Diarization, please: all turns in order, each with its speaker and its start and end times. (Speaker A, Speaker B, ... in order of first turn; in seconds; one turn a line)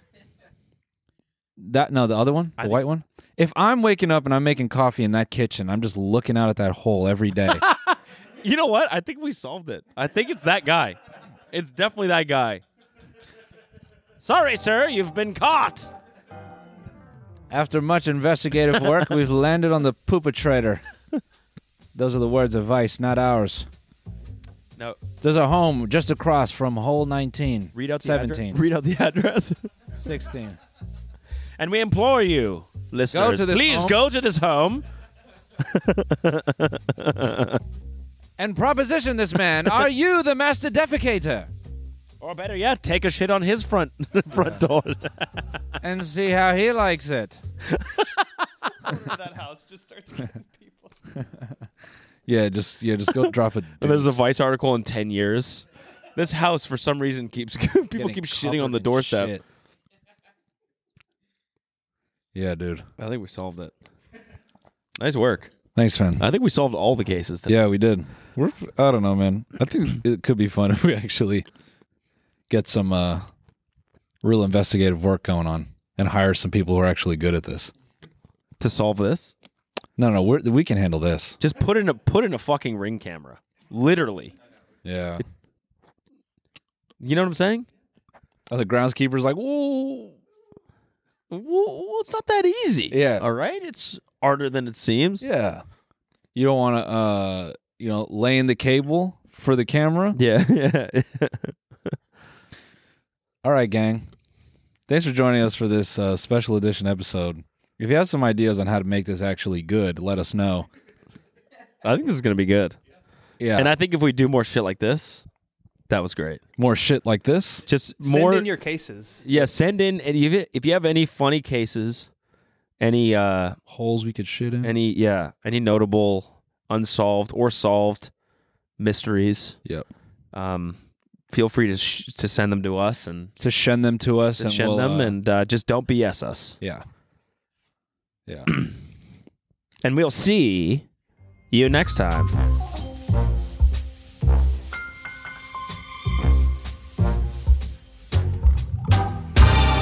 Speaker A: 1.6-7.6
Speaker B: 2.6-2.8
Speaker B: 7.6-11.0
Speaker B: 11.5-12.6
Speaker B: 14.2-15.9
Speaker A: 17.5-20.8
Speaker A: 21.9-23.7
Speaker A: 25.2-28.6
Speaker B: 27.7-29.6
Speaker A: 29.9-30.6
Speaker B: 31.6-34.8
Speaker A: 33.1-34.0
Speaker B: 35.6-37.6
Speaker A: 38.4-41.5
Speaker B: 42.2-45.4
Speaker A: 44.3-44.6
Speaker A: 45.8-47.4
Speaker B: 47.7-48.1
Speaker C: 48.8-50.9
Speaker A: 52.3-54.2
Speaker B: 53.1-59.3
Speaker A: 57.9-59.4
Speaker A: 62.3-62.9
Speaker B: 63.0-63.7
Speaker B: 65.0-65.5
Speaker A: 65.7-66.2
Speaker B: 66.2-67.6
Speaker A: 67.5-71.5
Speaker A: 72.5-73.3
Speaker A: 74.2-77.7
Speaker B: 78.6-79.3
Speaker A: 80.0-81.4
Speaker B: 81.4-84.3
Speaker A: 84.8-85.2
Speaker B: 87.0-87.7
Speaker A: 88.5-90.2
Speaker B: 91.3-95.2
Speaker A: 92.9-93.2
Speaker A: 95.2-95.6
Speaker A: 96.3-100.2
Speaker B: 100.1-101.5
Speaker A: 103.4-104.1
Speaker A: 104.9-110.7
Speaker B: 111.8-112.8
Speaker A: 113.4-113.7
Speaker B: 113.5-115.2
Speaker B: 115.9-116.4
Speaker A: 116.6-117.6
Speaker B: 117.7-118.5
Speaker C: 118.0-119.5
Speaker B: 119.2-122.1
Speaker B: 122.8-123.5
Speaker A: 123.7-124.7
Speaker B: 124.6-128.1
Speaker B: 128.8-129.6
Speaker B: 130.3-133.3
Speaker A: 133.4-135.2
Speaker B: 134.4-136.6
Speaker A: 138.3-138.5
Speaker B: 139.8-140.8
Speaker B: 141.5-142.3